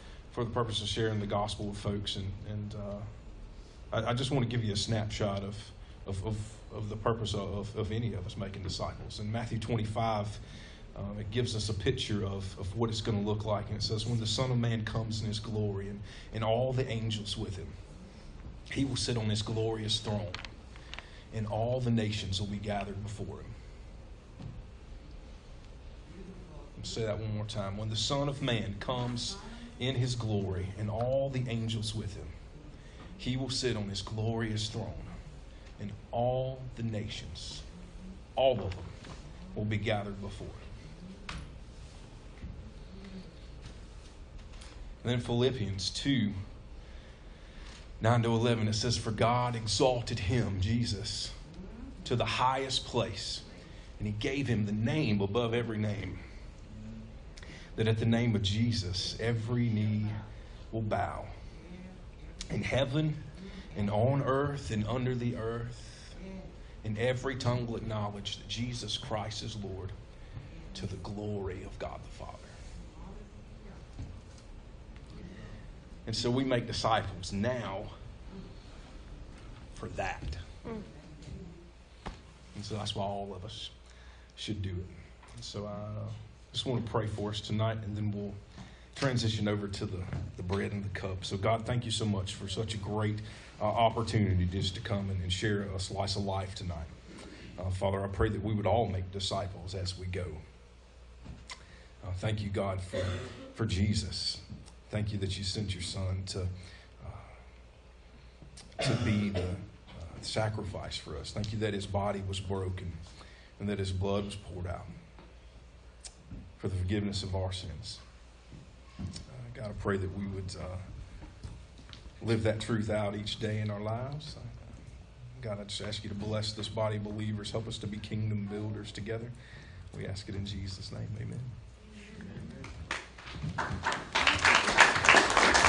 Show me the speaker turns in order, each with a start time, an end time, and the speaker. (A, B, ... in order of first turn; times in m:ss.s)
0:00.3-0:03.1 A
0:03.9-0:10.4 A
0:10.9-0:17.8 A
0:18.7-0:20.4 A
0:21.3-0:23.5 A
0:26.8-0:32.4 A
0:33.2-0:35.2 A
0:35.8-0:37.7 A
0:38.4-0:39.0 A
0:39.5-0:40.7 A
0:45.0-0:46.4 A
0:48.0-0:51.4 A
0:52.0-0:53.5 A
0:54.0-0:56.2 A
0:57.8-1:01.3 A
1:02.5-1:06.2 A
1:06.8-1:09.9 A
1:10.7-1:12.6 A
1:16.1-1:17.9 A
1:19.7-1:20.4 A
1:22.5-1:23.7 A
1:24.4-1:28.4 A
1:28.9-1:37.0 A
1:37.6-1:40.4 A
1:42.0-1:47.3 A
1:48.8-1:53.0 A
1:53.6-1:54.9 A
1:56.6-1:58.0 A
1:59.3-2:00.8 A
2:02.2-2:04.8 A
2:05.4-2:09.3 A
2:09.9-2:11.6 A